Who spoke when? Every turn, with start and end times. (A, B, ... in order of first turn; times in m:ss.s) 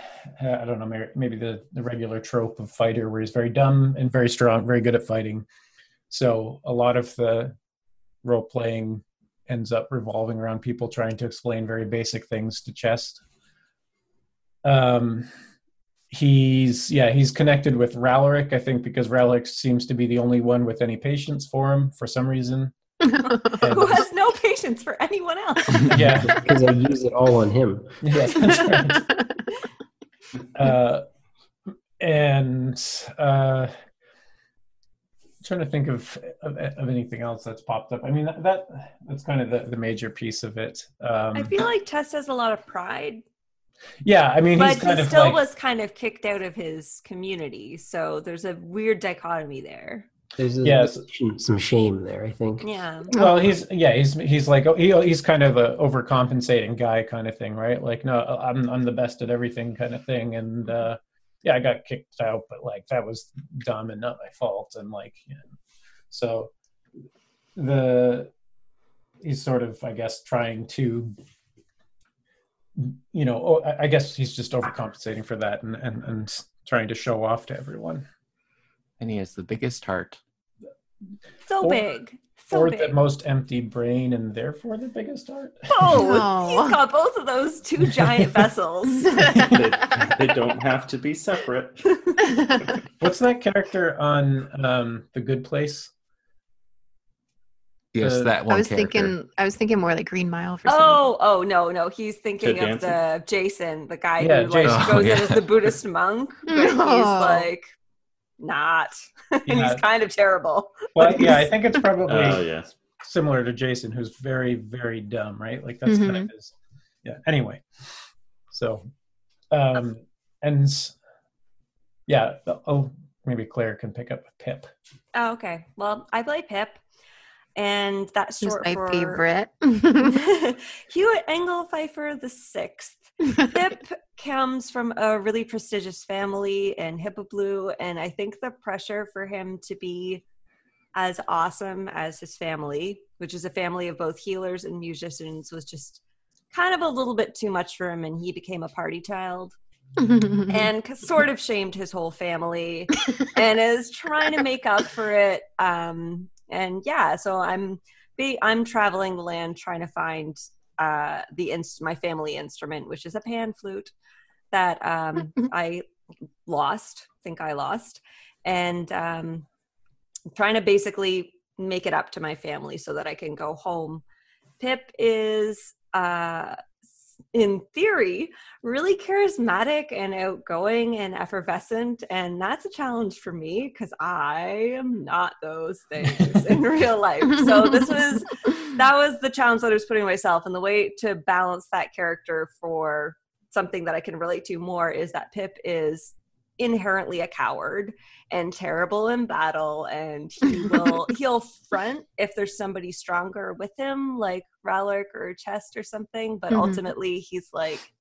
0:00.4-0:05.4 A
0:06.1-0:07.5 A
0:08.2-0:13.2 A
0:14.6-0:15.3 A
0:16.1-0:22.7 A
0:23.1-0:23.7 B
0:23.6-0:24.1 A
0:23.6-0:25.9 C
0:25.8-0:26.4 A
0:26.2-0:28.0 D
0:28.0-0:29.1 A
0:30.5-0:31.0 A
0:32.0-0:33.7 A
0:35.4-0:41.6 A
0:41.3-0:43.2 C
0:44.0-0:45.4 A
0:44.6-0:50.1 C
0:50.4-0:52.7 D
0:50.6-0:51.0 A
0:52.6-0:53.1 C
0:53.1-1:05.4 A
0:53.2-0:53.4 B
1:06.1-1:06.5 A
1:07.6-1:08.3 A
1:09.2-1:11.2 A
1:12.8-1:18.0 A
1:19.0-1:20.2 E
1:21.5-1:23.0 C
1:22.5-1:26.0 A
1:25.7-1:29.1 C
1:26.0-1:26.8 B
1:28.0-1:28.5 A
1:29.2-1:29.5 B
1:29.5-1:32.0 F
1:33.0-1:35.9 A
1:37.9-1:39.1 E
1:38.0-1:38.3 A
1:38.5-1:41.0 B
1:40.7-1:47.7 C
1:42.4-1:43.0 F
1:44.2-1:45.1 A
1:44.6-1:45.6 E
1:46.5-1:47.5 B
1:48.4-1:51.3 C
1:49.5-1:49.8 A
1:50.9-1:52.4 A
1:52.1-1:52.7 F
1:53.0-1:56.5 A
1:55.9-1:56.3 B
1:57.0-1:57.7 A
1:58.5-1:58.8 A
1:59.5-2:00.9 A
2:02.1-2:04.7 A
2:05.1-2:06.8 C
2:07.6-2:09.2 C
2:08.4-2:10.2 B
2:10.0-2:20.2 C
2:21.0-2:26.0 C
2:26.5-2:29.6 C
2:30.0-2:30.7 B
2:30.5-2:43.9 C
2:44.5-2:45.8 C
2:46.5-2:49.5 C
2:50.3-2:54.0 C
2:54.6-2:56.6 C
2:57.3-3:27.9 C
3:07.6-3:08.0 B
3:26.5-3:26.8 B